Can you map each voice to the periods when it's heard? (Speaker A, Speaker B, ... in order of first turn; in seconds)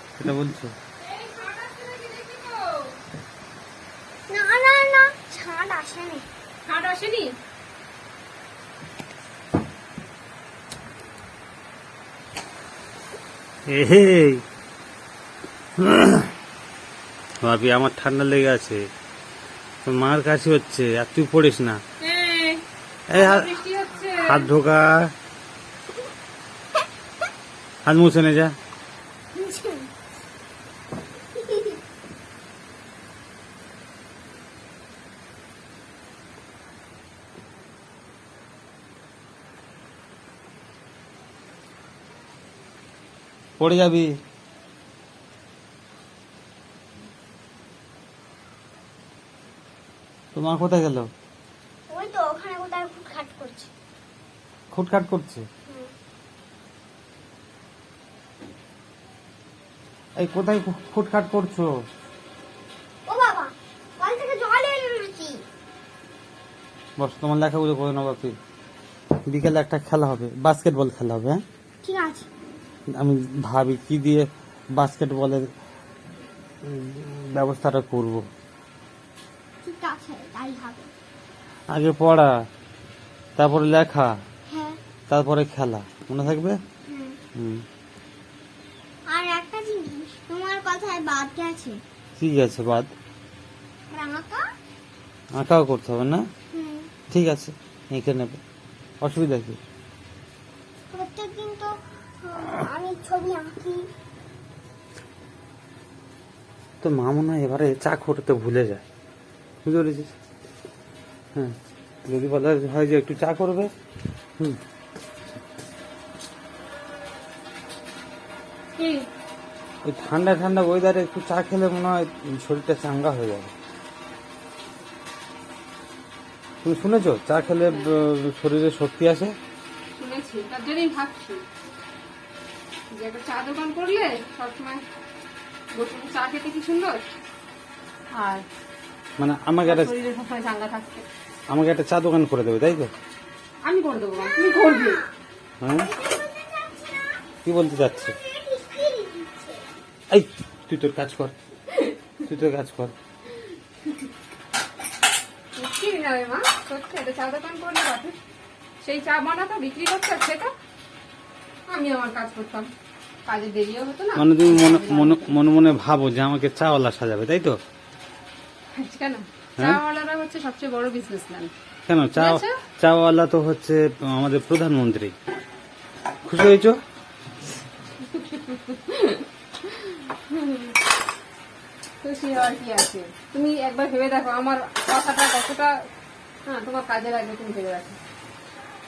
Speaker A: 0.2-0.7, 13.7-14.4, 15.8-16.3, 17.4-18.8, 19.8-21.8, 23.1-23.5, 24.2-25.1, 27.8-28.5, 43.6-44.1, 50.3-51.1, 54.7-55.5, 60.2-61.7, 67.0-68.3, 69.3-71.4, 72.9-75.5, 76.6-78.2, 81.7-82.3, 83.4-84.1, 85.1-86.6, 87.3-87.6, 92.2-92.9, 95.3-96.2, 97.1-98.4, 99.0-99.6, 106.8-108.8, 109.6-110.1, 112.1-113.7, 119.8-123.5, 126.6-129.3, 139.2-139.9, 141.5-142.9, 145.6-145.9, 147.4-148.1, 150.1-151.3, 152.3-152.9, 164.2-167.6, 171.9-175.1, 176.2-176.8
Speaker B: 1.0-3.0, 6.6-7.3, 22.0-24.5, 118.7-119.1, 129.9-131.4, 132.9-134.8, 135.7-137.0, 138.1-138.4, 139.6-141.0, 143.6-145.0, 151.7-152.1, 155.6-158.2, 158.8-160.5, 161.7-162.7, 163.2-165.3, 168.7-171.5, 172.1-172.6, 178.0-180.8, 182.0-185.9, 186.4-188.0
Speaker C: 4.3-6.3, 29.3-29.9, 31.4-31.8, 51.9-53.7, 63.1-65.4, 71.8-72.3, 79.6-80.9, 84.5-84.8, 86.9-87.2, 89.1-91.8, 93.9-94.5, 96.5-97.0, 100.9-101.7, 102.2-103.9, 144.1-145.1, 145.8-149.7